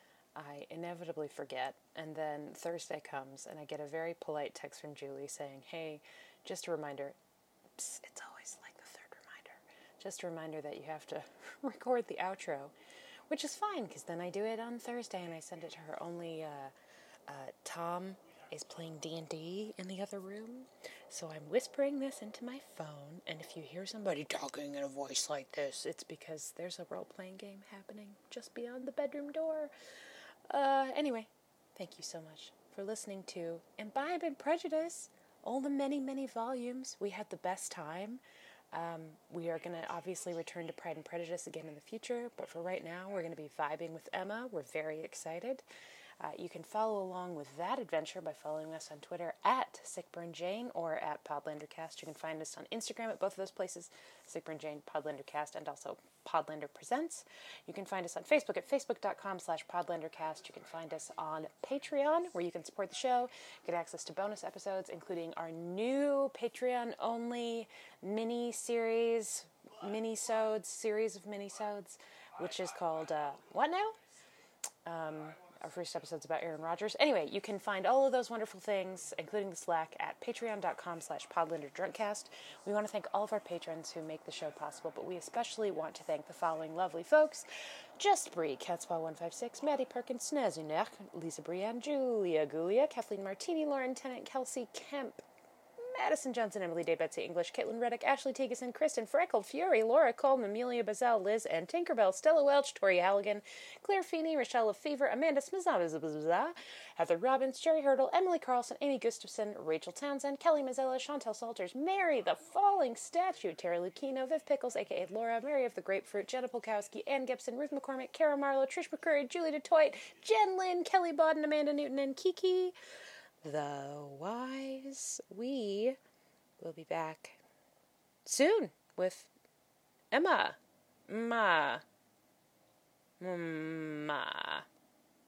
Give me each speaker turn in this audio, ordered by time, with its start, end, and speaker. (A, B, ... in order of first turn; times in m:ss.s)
0:00.4-0:07.2 A
0:07.8-0:12.7 A
0:13.3-0:16.7 A
0:17.3-0:29.7 A
0:30.5-0:38.2 A
0:38.7-0:45.6 A
0:46.2-1:14.0 A
1:14.9-1:27.5 A
1:28.0-1:35.2 A
1:35.8-2:02.7 A
2:03.4-2:06.0 A
2:06.6-2:07.4 A
2:08.3-2:09.3 A
2:10.1-2:10.6 A
2:11.1-2:11.8 A
2:13.2-2:14.6 A